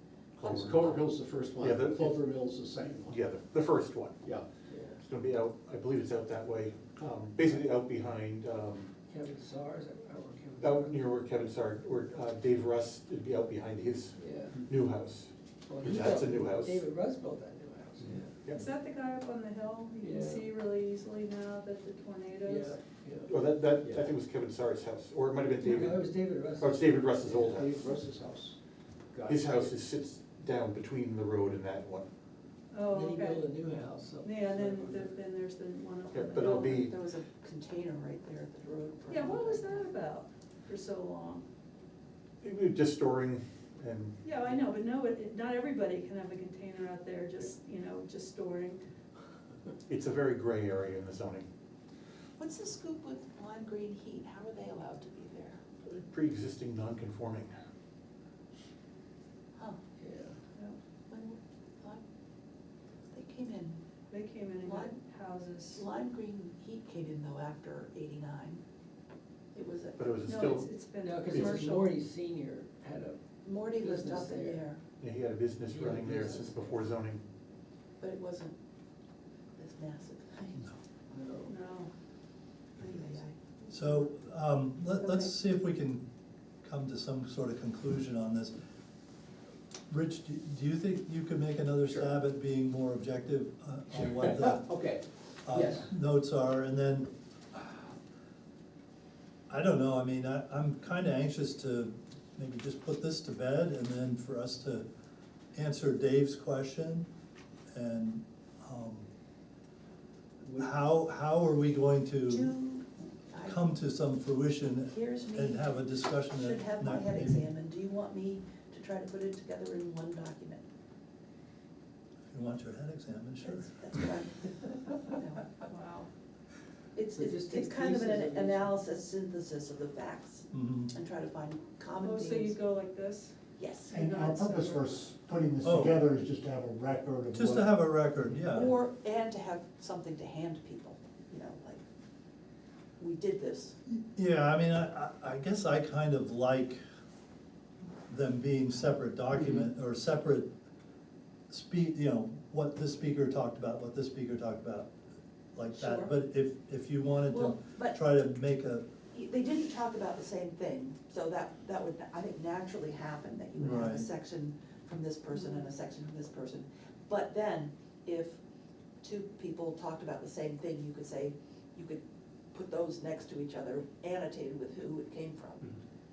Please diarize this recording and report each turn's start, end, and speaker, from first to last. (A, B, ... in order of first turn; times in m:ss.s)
0:00.4-0:02.3 A
0:00.4-0:03.2 B
0:03.1-0:04.2 A
0:04.7-0:05.0 C
0:05.0-0:08.9 A
0:07.0-0:07.5 B
0:09.1-0:11.0 C
0:10.6-0:16.8 A
0:14.1-0:14.6 C
0:15.7-0:18.4 C
0:18.5-0:22.8 D
0:20.0-0:20.5 C
0:22.4-0:23.3 C
0:23.3-0:27.8 A
0:23.8-0:24.1 B
0:25.6-0:27.6 C
0:27.3-0:28.6 B
0:29.1-0:29.7 B
0:29.3-0:32.1 A
0:32.7-0:33.5 D
0:32.9-0:35.1 C
0:34.2-0:36.8 D
0:36.1-0:36.9 A
0:36.5-0:39.8 E
0:39.1-0:41.4 D
0:42.4-0:44.3 A
0:44.2-0:48.8 D
0:49.9-0:51.4 A
0:52.4-0:55.6 E
0:55.8-0:57.5 A
1:00.0-1:00.4 C
1:01.1-1:02.0 E
1:03.1-1:03.8 E
1:04.1-1:05.8 D
1:04.6-1:05.0 E
1:05.7-1:08.6 E
1:09.5-1:10.1 E
1:10.0-1:11.7 A
1:10.2-1:11.9 D
1:11.0-1:13.2 C
1:13.4-1:14.8 E
1:13.7-1:14.6 C
1:15.0-1:17.2 A
1:15.6-1:16.8 C
1:18.0-1:18.6 E
1:19.6-1:20.7 E
1:21.1-1:21.5 C
1:21.4-1:21.9 D
1:22.8-1:23.3 E
1:23.7-1:26.0 F
1:25.0-1:25.3 D
1:26.6-1:28.5 F
1:29.9-1:34.7 F
1:33.9-1:35.9 B
1:35.4-1:37.8 F
1:39.5-1:44.8 F
1:45.5-1:47.1 F
1:47.7-1:49.1 F
1:50.4-1:50.7 B
1:50.6-1:52.5 F
1:52.3-1:53.7 E
1:53.4-1:57.5 F
1:54.9-2:00.6 E
2:02.3-2:03.7 F
2:03.4-2:05.6 E
2:05.6-2:06.1 D
2:06.9-2:12.6 E
2:07.1-2:08.8 C
2:10.5-2:10.9 F
2:12.0-2:13.4 D
2:13.6-2:14.0 E
2:13.9-2:15.0 D
2:13.9-2:17.7 G
2:15.6-2:16.0 F
2:17.3-2:18.8 F
2:18.4-2:21.8 E
2:23.0-2:23.8 E
2:23.8-2:26.8 F
2:28.1-2:30.5 F
2:31.5-2:34.9 F
2:35.5-2:38.9 F
2:35.7-2:36.2 E
2:37.2-2:38.0 E
2:39.1-2:48.4 E
2:43.6-2:44.1 F
2:45.3-2:45.7 D
2:49.0-2:52.0 E
2:52.5-2:55.7 E